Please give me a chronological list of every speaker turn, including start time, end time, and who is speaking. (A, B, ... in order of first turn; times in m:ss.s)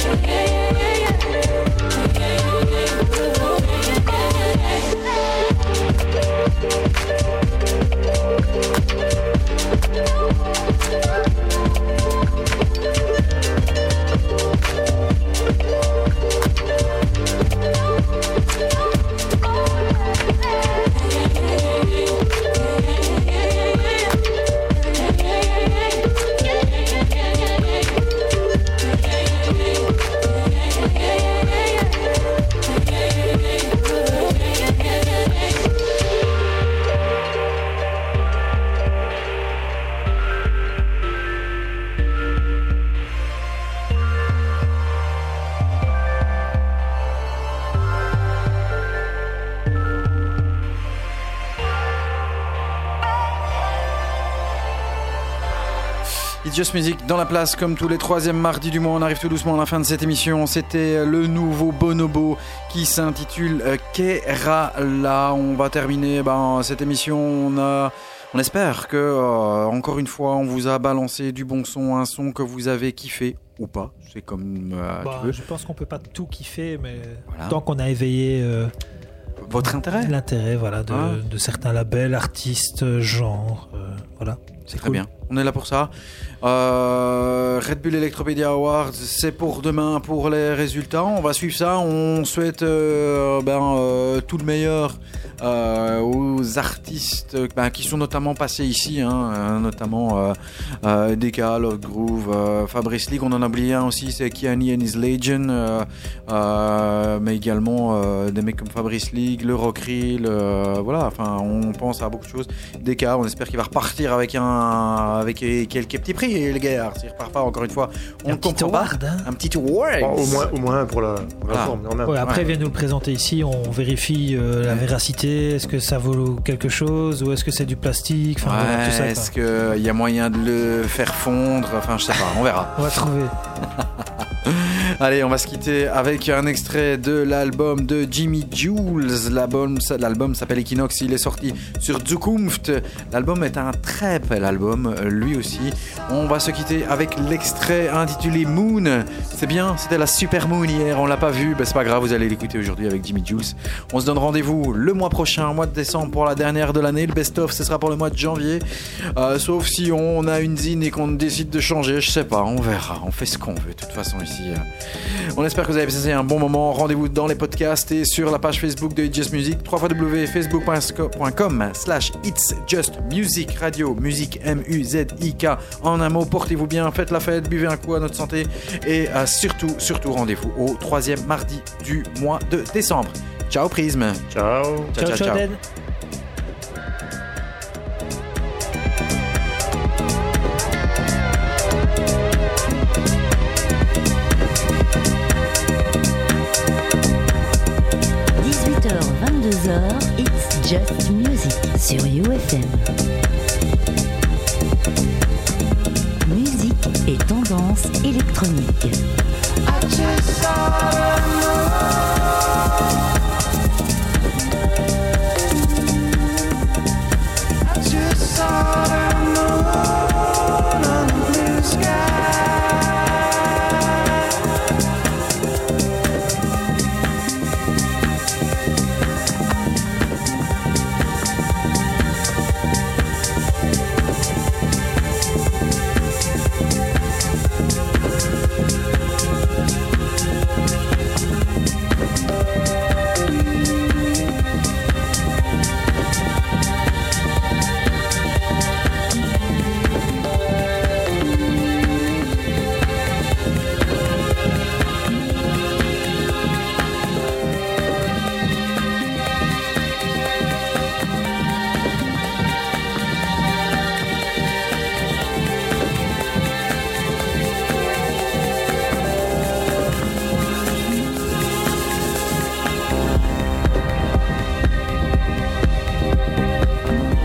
0:56.4-1:15.4 A
1:15.0-1:18.7 B
1:17.3-1:17.6 A
1:19.4-1:20.2 A
1:19.8-1:25.0 B
1:20.9-1:21.2 A
1:24.7-2:00.5 A
1:58.3-1:59.3 B
2:00.0-2:02.2 C
2:01.5-2:02.5 A
2:02.0-2:09.3 B
2:08.4-2:13.0 A
2:12.8-2:13.3 B
2:13.6-3:04.2 A
3:04.3-3:05.0 C
3:04.9-3:05.4 A
3:05.0-3:05.6 B
3:18.4-3:22.9 D
3:26.2-3:29.0 D
3:29.7-3:32.8 A
3:37.6-3:44.2 A